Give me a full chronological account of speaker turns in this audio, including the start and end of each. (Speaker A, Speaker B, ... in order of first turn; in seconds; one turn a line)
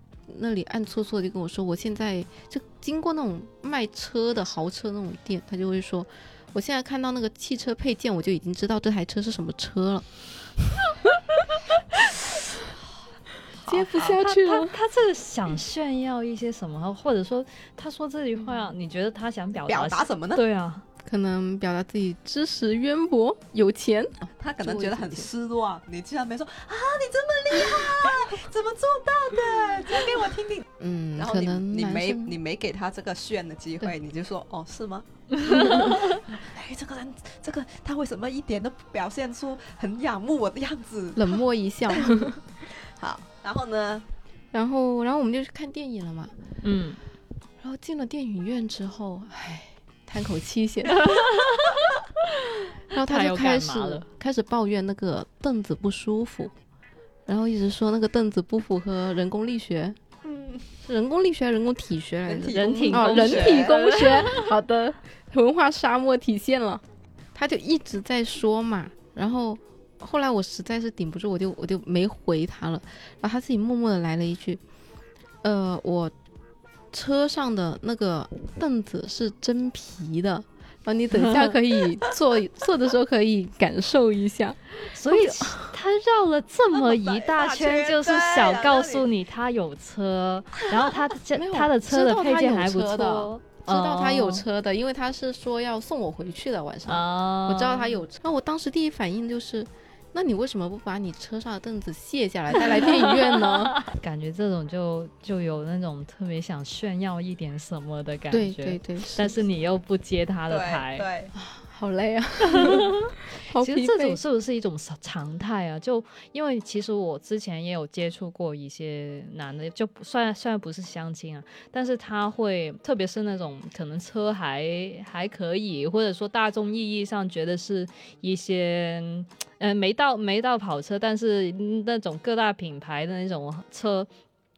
Speaker A: 0.3-10.0
Speaker A: 13.6-14.8
Speaker B: 13.7-14.1
Speaker C: 13.9-20.8
Speaker B: 19.7-20.4
Speaker A: 21.0-25.3
Speaker B: 24.4-30.6
Speaker A: 30.8-32.4
Speaker B: 31.2-41.4
Speaker C: 35.3-36.2
Speaker A: 35.5-35.9
Speaker A: 41.1-42.4
Speaker B: 41.9-44.0
Speaker A: 44.5-46.3
Speaker C: 46.6-47.0
Speaker A: 47.6-51.2
Speaker C: 50.9-54.0
Speaker A: 52.9-56.5
Speaker A: 57.3-60.0
Speaker B: 60.2-60.7
Speaker A: 60.9-66.8
Speaker B: 62.2-64.0
Speaker C: 62.5-64.5
Speaker A: 67.3-74.6
Speaker A: 75.4-76.1
Speaker A: 76.9-85.7
Speaker C: 81.1-81.5
Speaker C: 84.8-94.4
Speaker B: 86.7-89.1
Speaker A: 91.3-103.8
Speaker C: 96.8-98.0
Speaker C: 102.8-111.1
Speaker A: 108.3-109.4
Speaker B: 110.5-111.3
Speaker A: 111.3-112.9
Speaker C: 112.4-134.1
Speaker A: 113.5-114.2